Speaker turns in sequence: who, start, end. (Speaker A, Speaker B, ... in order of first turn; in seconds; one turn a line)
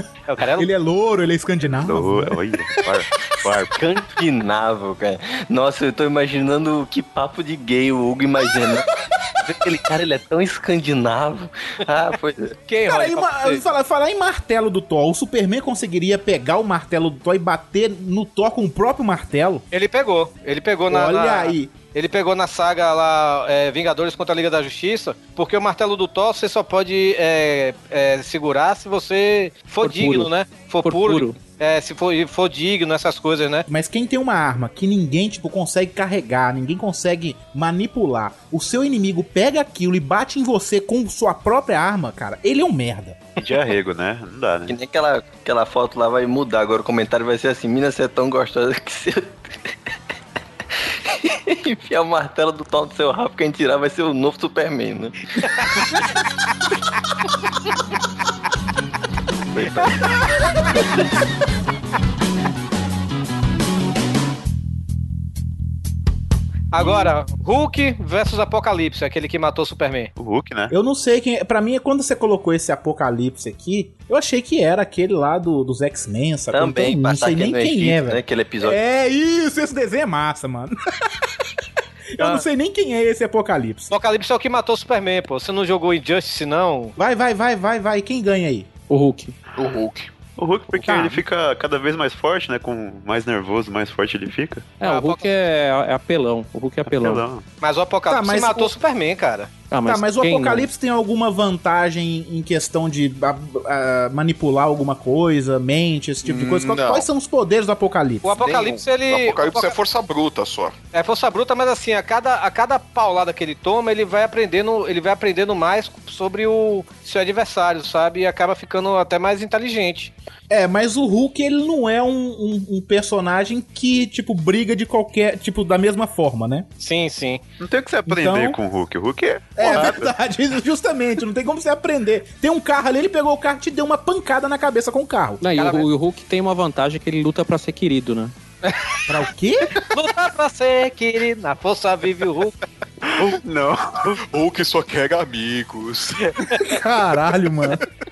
Speaker A: 0.3-0.7
Speaker B: 0.6-2.6
Speaker C: 1.8-3.8
Speaker D: 3.7-12.6
Speaker A: 12.7-13.6
Speaker B: 12.9-19.6
Speaker A: 19.7-33.7
Speaker B: 20.9-21.7
Speaker E: 29.8-30.3
Speaker E: 30.8-31.4
Speaker B: 33.7-43.2
Speaker C: 43.4-44.8
Speaker D: 44.7-49.7
Speaker D: 51.1-55.5
Speaker A: 55.4-55.7
Speaker D: 59.5-60.7
Speaker A: 66.7-70.1
Speaker C: 70.2-70.7
Speaker B: 70.7-81.3
Speaker D: 76.5-78.8
Speaker B: 82.1-83.9
Speaker A: 82.2-82.4
Speaker A: 83.9-87.0
Speaker B: 87.0-88.7
Speaker E: 88.9-89.3
Speaker F: 89.6-90.1
Speaker C: 90.4-94.7
Speaker B: 90.8-91.2
Speaker E: 94.8-97.2
Speaker A: 94.8-95.3
Speaker C: 96.9-97.5
Speaker A: 97.6-99.5
Speaker B: 98.1-98.7
Speaker E: 99.7-100.7
Speaker B: 99.8-108.4
Speaker F: 106.2-107.1
Speaker A: 108.2-109.8
Speaker F: 108.3-110.8
Speaker A: 110.9-120.1
Speaker B: 120.5-126.7
Speaker A: 126.8-127.4
Speaker C: 127.6-130.1
Speaker B: 128.1-128.6
Speaker B: 129.6-135.4
Speaker E: 135.4-138.3
Speaker A: 135.6-135.8
Speaker A: 138.7-139.0
Speaker B: 139.1-139.8
Speaker A: 139.9-142.6
Speaker C: 143.2-144.2
Speaker F: 144.2-146.3
Speaker B: 146.6-147.8